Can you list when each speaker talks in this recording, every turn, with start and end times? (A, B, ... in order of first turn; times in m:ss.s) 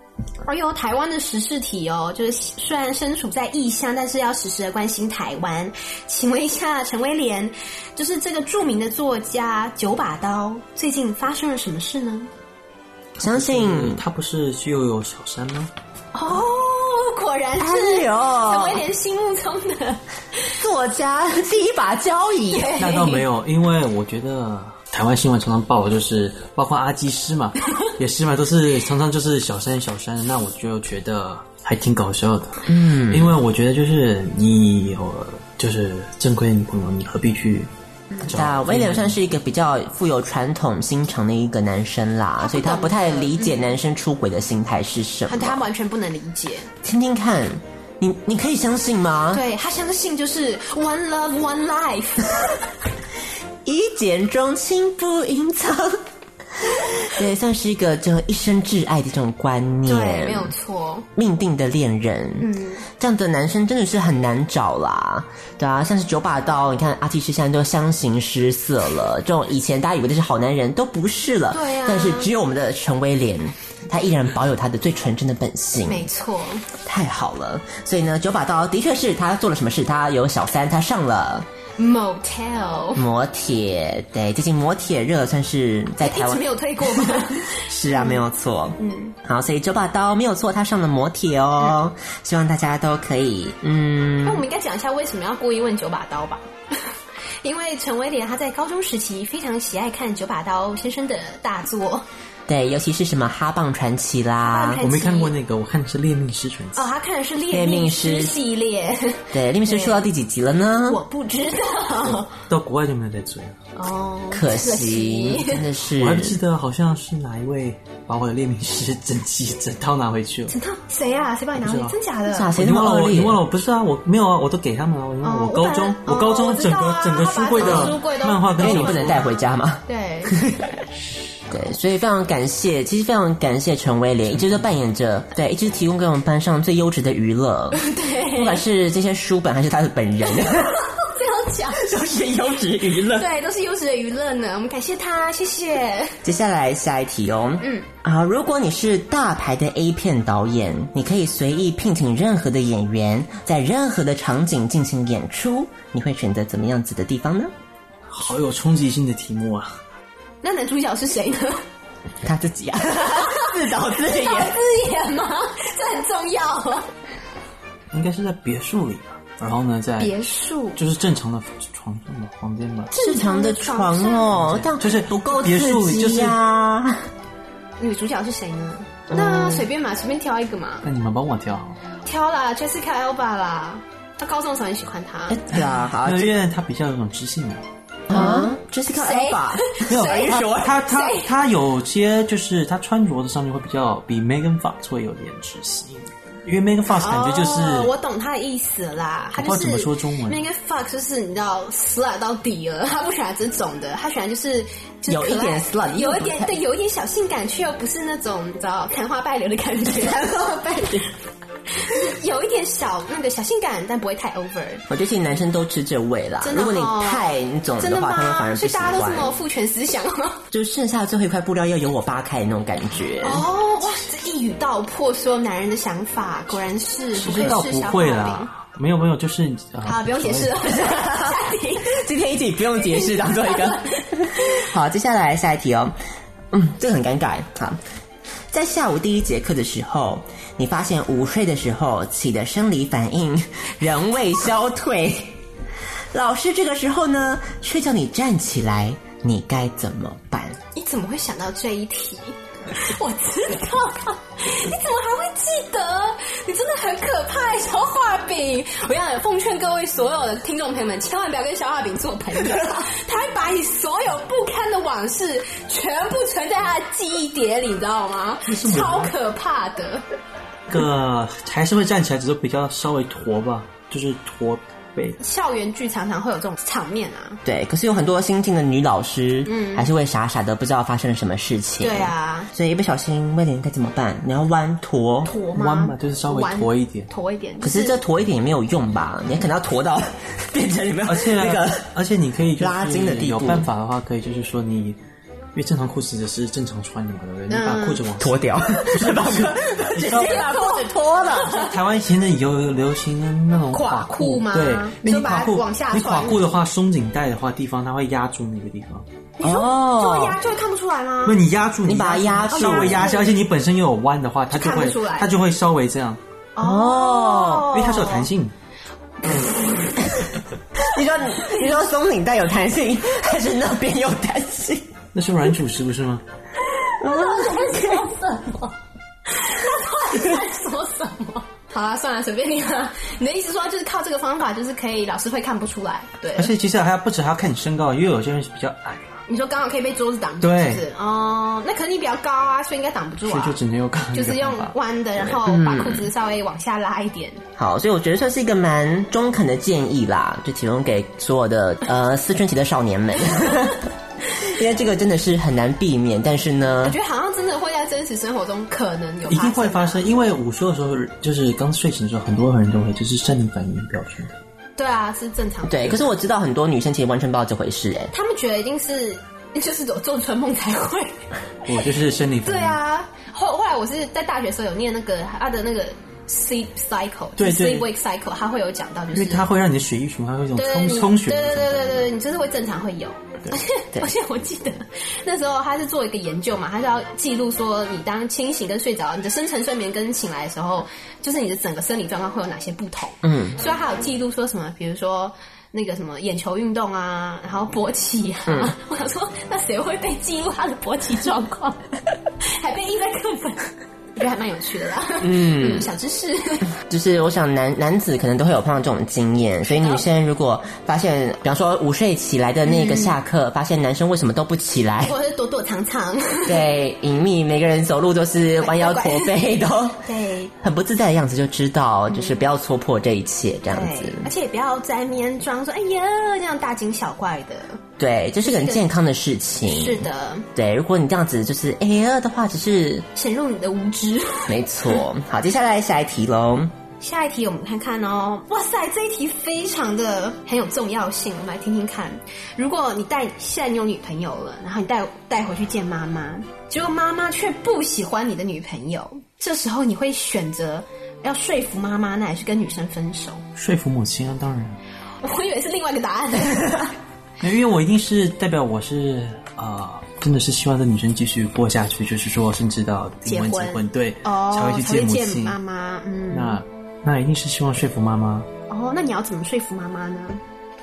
0:00.4-0:12.3 A
0:13.2-0:15.7 B
0:13.2-0:14.0 C
0:16.1-0:20.5 A
0:17.6-0:18.8 C
0:20.6-0:22.8 C
0:22.5-0:23.2 A
0:22.8-0:37.7 B
0:32.7-0:33.4 C
0:38.2-0:39.2 B
0:38.2-0:45.6 C
0:42.4-0:43.6 A
0:45.3-0:46.7 A
0:46.8-0:49.4 C
0:49.3-0:52.6 A
0:53.6-0:56.0 C
0:56.6-1:00.5 C
0:59.8-1:01.1 A
1:01.1-1:16.1 C
1:02.4-1:02.8 A
1:11.5-1:12.3 A
1:15.8-1:16.6 A
1:16.8-1:21.5 C
1:21.8-1:23.0 A
1:22.9-1:34.4 C
1:26.0-1:28.2 A
1:28.8-1:29.1 A
1:34.2-1:36.9 A
1:37.4-1:42.0 A
1:42.5-1:44.8 C
1:44.4-1:45.3 A
1:44.8-1:46.9 B
1:46.7-1:50.0 A
1:47.5-1:48.4 C
1:49.3-1:51.0 C
1:50.9-1:52.3 A
1:52.0-1:53.6 B
1:53.8-1:55.6 A
1:54.3-1:56.4 C
1:56.0-2:00.5 B
2:00.5-2:02.5 A
2:01.6-2:02.0 B
2:02.2-2:03.4 C
2:02.6-2:09.2 B
2:05.2-2:10.4 A
2:07.6-2:08.0 C
2:08.6-2:10.8 C
2:11.5-2:17.8 C
2:17.7-2:18.6 A
2:18.3-2:20.8 C
2:20.3-2:21.8 A
2:21.7-2:23.3 C
2:23.1-2:26.2 A
2:26.2-2:37.5 C
2:27.6-2:27.9 A
2:38.1-2:39.8 B
2:40.4-2:41.6 A
2:42.2-2:44.6 C
2:43.1-2:46.9 A
2:47.9-2:50.1 B
2:50.0-2:50.8 A
2:50.8-2:52.9 B
2:52.9-2:54.4 A
2:52.9-2:57.1 C
2:54.3-2:56.4 B
2:57.8-3:00.8 A
2:59.1-2:59.6 C
3:00.8-3:01.8 B
3:02.0-3:05.4 A
3:05.3-3:06.3 C
3:05.5-3:07.6 B
3:08.1-3:10.8 C
3:08.1-3:11.3 A
3:09.9-3:17.9 B
3:16.9-3:30.3 A
3:19.4-3:20.4 B
3:25.1-3:26.6 C
3:29.9-3:31.1 C
3:31.8-3:34.8 A
3:34.9-3:39.4 C
3:36.4-3:37.2 A
3:37.8-3:40.4 A
3:40.5-3:43.4 C
3:43.2-3:48.5 A
3:47.1-3:50.6 B
3:49.8-3:52.0 A
3:50.8-3:55.9 C
3:52.8-3:54.6 A
3:56.5-3:57.8 C
3:58.5-4:05.4 C
4:06.1-4:10.6 C
4:10.7-4:30.0 A
4:28.4-4:29.1 B
4:30.7-4:35.2 B
4:35.2-4:37.4 A
4:37.4-4:45.3 C
4:39.4-4:39.9 A
4:41.8-4:42.5 A
4:45.2-4:48.0 A
4:45.5-4:47.1 B
4:47.6-4:51.9 C
4:51.0-4:55.0 B
4:52.6-4:53.7 C
4:55.5-5:00.4 B
4:57.5-4:58.0 A
4:58.2-5:01.6 C
5:00.1-5:01.7 A
5:01.4-5:09.0 B
5:03.7-5:06.4 A
5:09.4-5:11.4 A
5:09.4-5:10.4 C
5:11.2-5:16.2 B
5:11.8-5:13.1 C
5:12.5-5:13.3 A
5:14.5-5:15.3 A
5:16.6-5:18.3 A
5:16.6-5:17.7 C
5:17.7-5:18.5 B
5:19.2-5:20.0 A
5:20.8-5:24.9 C
5:25.1-5:26.2 B
5:26.8-5:28.8 A
5:27.0-5:28.0 C
5:29.3-5:36.5 A
5:36.4-5:39.2 B
5:39.3-5:43.6 A
5:40.4-5:40.8 B
5:43.2-5:45.4 B
5:44.1-5:47.4 A
5:45.4-5:46.1 C
5:47.6-5:57.0 C
5:56.8-6:00.1 A
5:59.3-6:04.4 B
6:04.8-6:06.1 A
6:05.6-6:08.1 C
6:08.1-6:11.2 A
6:11.6-6:12.8 B
6:12.4-6:19.5 A
6:17.4-6:17.9 B
6:19.1-6:22.1 B
6:20.5-6:41.8 A
6:33.2-6:33.6 C
6:38.5-6:38.7 C
6:42.4-6:46.7 A
6:45.2-6:45.9 C
6:46.7-6:55.1 C
6:49.7-6:50.0 A
6:52.6-6:53.2 A
6:55.0-6:56.6 A
6:56.5-7:00.0 C
6:58.6-6:59.4 A
7:00.0-7:00.5 A
7:00.6-7:04.3 C
7:02.1-7:02.5 A
7:03.7-7:07.8 A
7:08.0-7:13.0 C
7:08.4-7:08.9 A
7:09.6-7:10.5 A
7:13.1-7:14.6 A
7:14.5-7:16.7 C
7:17.0-7:33.4 A
7:33.6-7:34.8 B
7:35.2-7:36.9 A
7:37.4-7:45.6 B
7:43.2-7:46.6 A
7:46.3-7:48.5 B
7:48.7-7:50.4 A